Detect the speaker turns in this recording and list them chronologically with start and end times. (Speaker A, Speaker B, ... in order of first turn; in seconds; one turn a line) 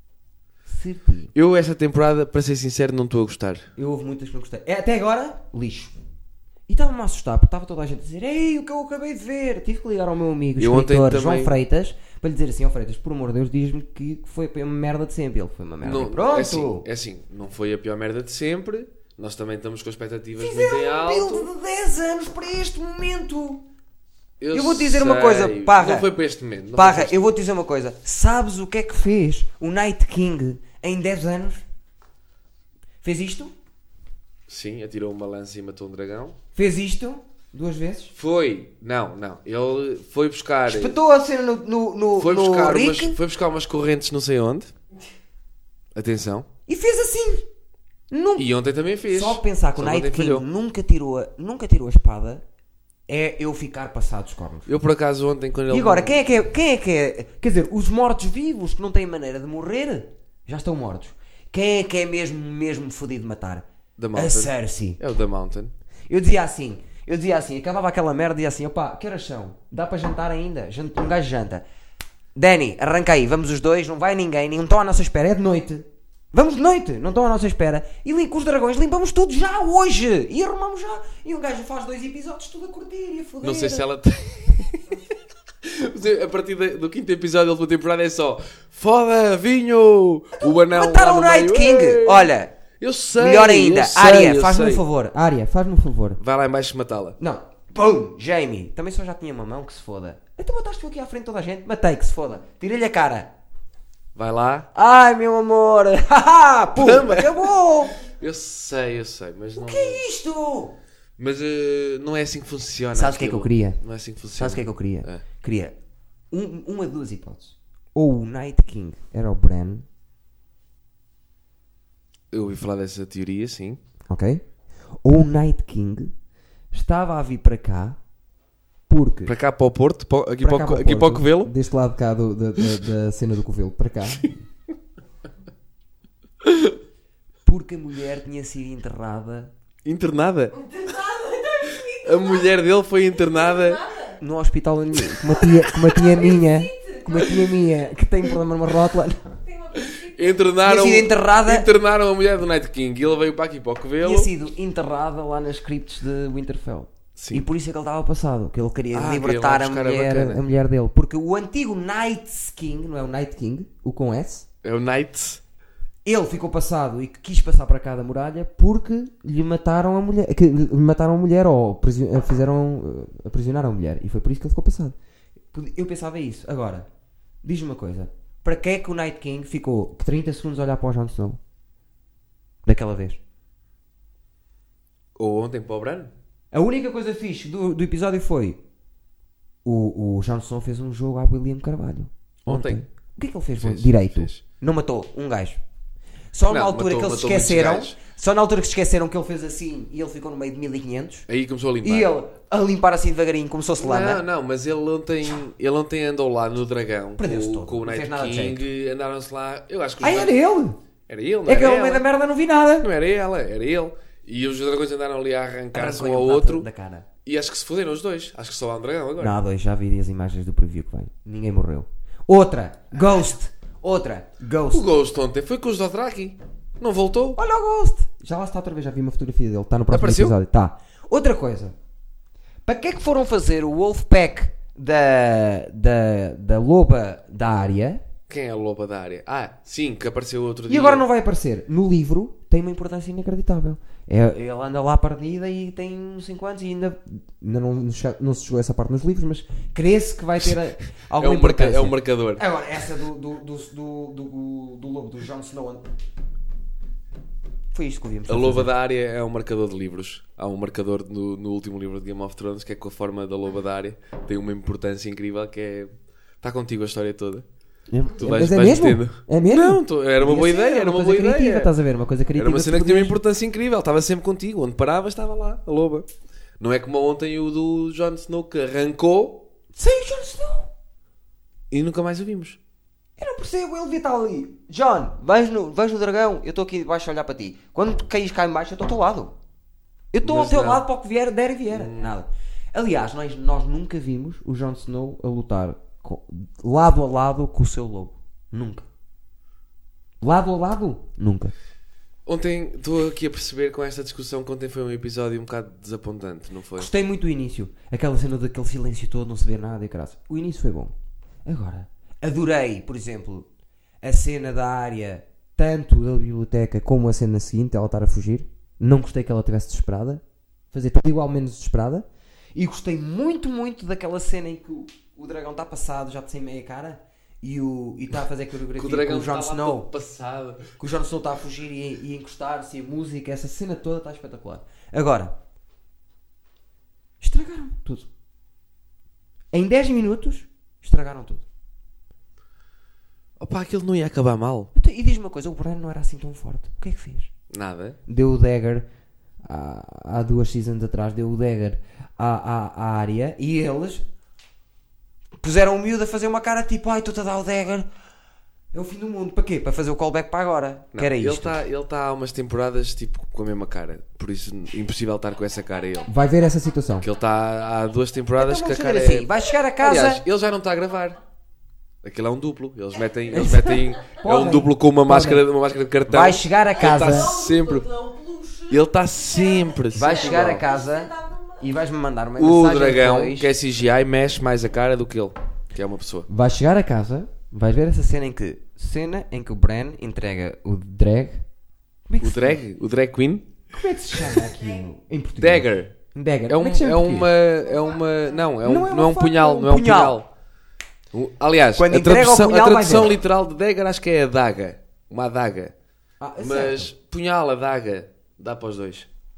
Speaker A: 0.7-1.3
Speaker B: 1.3-3.7
Speaker A: 3.8-5.9
Speaker A: 6.7-16.9
Speaker B: 10.6-11.6
Speaker B: 15.8-21.5
Speaker A: 20.4-23.6
Speaker B: 24.4-27.3
Speaker A: 24.5-26.1
Speaker A: 26.7-31.6
Speaker A: 33.0-33.5
Speaker B: 34.5-36.4
Speaker A: 36.5-38.1
Speaker B: 38.1-41.0
Speaker A: 40.7-43.2
Speaker B: 42.2-44.7
Speaker B: 45.9-46.5
Speaker A: 46.7-47.5
Speaker A: 48.1-48.5
Speaker B: 48.4-50.5
Speaker A: 49.1-52.4
Speaker A: 53.1-54.7
Speaker B: 54.6-56.2
Speaker A: 55.7-65.0
Speaker B: 64.0-65.7
Speaker A: 66.1-71.6
Speaker A: 72.3-83.9
Speaker B: 83.4-84.8
Speaker B: 85.6-94.8
Speaker A: 90.4-92.5
Speaker A: 93.1-96.2
Speaker B: 96.2-97.2
Speaker A: 97.2-103.3
Speaker B: 104.1-104.7
Speaker A: 104.7-108.0
Speaker B: 106.8-110.0
Speaker A: 109.6-110.7
Speaker B: 111.2-115.2
Speaker A: 112.9-113.8
Speaker A: 114.3-115.7
Speaker A: 116.3-119.8
Speaker B: 122.3-123.8
Speaker A: 124.1-124.4
Speaker A: 125.0-126.1
Speaker A: 126.7-128.0
Speaker A: 128.9-129.3
Speaker B: 129.2-131.5
Speaker A: 130.4-134.4
Speaker B: 136.4-136.8
Speaker A: 137.4-139.5
Speaker B: 139.8-140.6
Speaker C: 140.5-144.2
Speaker B: 141.9-143.8
Speaker A: 144.2-149.4
Speaker C: 146.0-147.5
Speaker C: 149.4-150.5
Speaker B: 149.7-154.3
Speaker A: 150.6-151.7
Speaker A: 154.0-164.5
Speaker B: 157.2-157.5
Speaker B: 158.9-160.4
Speaker B: 164.6-165.4
Speaker A: 166.0-174.9
Speaker A: 175.5-176.9
Speaker A: 177.4-181.4
Speaker A: 182.6-183.2
Speaker B: 185.2-186.1
Speaker A: 186.5-188.6
Speaker A: 189.6-195.6
Speaker B: 192.4-192.8
Speaker B: 193.6-194.4
Speaker A: 196.3-201.3
Speaker B: 196.5-197.9
Speaker B: 201.3-202.1
Speaker A: 201.8-204.2
Speaker B: 203.8-210.3
Speaker A: 207.2-208.6
Speaker A: 210.0-210.8
Speaker B: 211.1-212.1
Speaker A: 211.4-212.9
Speaker B: 212.8-216.7
Speaker A: 215.7-217.1
Speaker B: 217.2-219.3
Speaker A: 219.2-224.9
Speaker B: 224.7-227.4
Speaker A: 227.3-231.7
Speaker B: 229.9-230.3
Speaker A: 232.7-238.0
Speaker B: 238.3-241.0
Speaker A: 240.7-255.8
Speaker B: 251.2-252.4
Speaker A: 257.7-258.7
Speaker B: 258.3-267.4
Speaker A: 267.9-273.2
Speaker B: 268.2-271.7
Speaker B: 272.3-276.1
Speaker B: 276.6-279.4
Speaker A: 279.7-280.7
Speaker B: 281.7-282.6
Speaker A: 283.2-289.3
Speaker A: 290.1-298.9
Speaker B: 290.2-290.9
Speaker B: 291.7-292.1
Speaker A: 300.2-301.5
Speaker B: 302.2-306.9
Speaker A: 306.8-310.9
Speaker A: 311.4-313.5
Speaker A: 314.0-329.9
Speaker B: 328.8-330.7
Speaker A: 330.8-335.4
Speaker A: 337.2-338.1
Speaker A: 339.5-341.4
Speaker B: 343.4-344.7
Speaker A: 344.7-347.3
Speaker B: 347.5-348.0
Speaker A: 348.1-348.9
Speaker A: 349.4-354.0
Speaker A: 355.4-357.9
Speaker A: 358.7-361.6
Speaker B: 360.9-366.1
Speaker A: 366.1-367.1
Speaker B: 367.0-369.3
Speaker A: 368.4-370.2
Speaker B: 369.8-371.2
Speaker B: 372.0-377.9
Speaker A: 373.3-375.4
Speaker A: 376.1-377.3
Speaker C: 376.7-381.7
Speaker B: 378.7-380.6
Speaker A: 379.9-383.5
Speaker B: 382.4-386.3
Speaker A: 386.3-391.4
Speaker A: 392.1-392.6
Speaker B: 392.2-393.5
Speaker A: 393.7-397.3
Speaker C: 394.3-394.9
Speaker B: 395.4-395.9
Speaker B: 396.5-400.3
Speaker C: 397.6-398.5
Speaker A: 398.6-400.2
Speaker B: 401.1-405.7
Speaker A: 401.8-403.2
Speaker A: 406.2-406.9
Speaker B: 406.4-409.1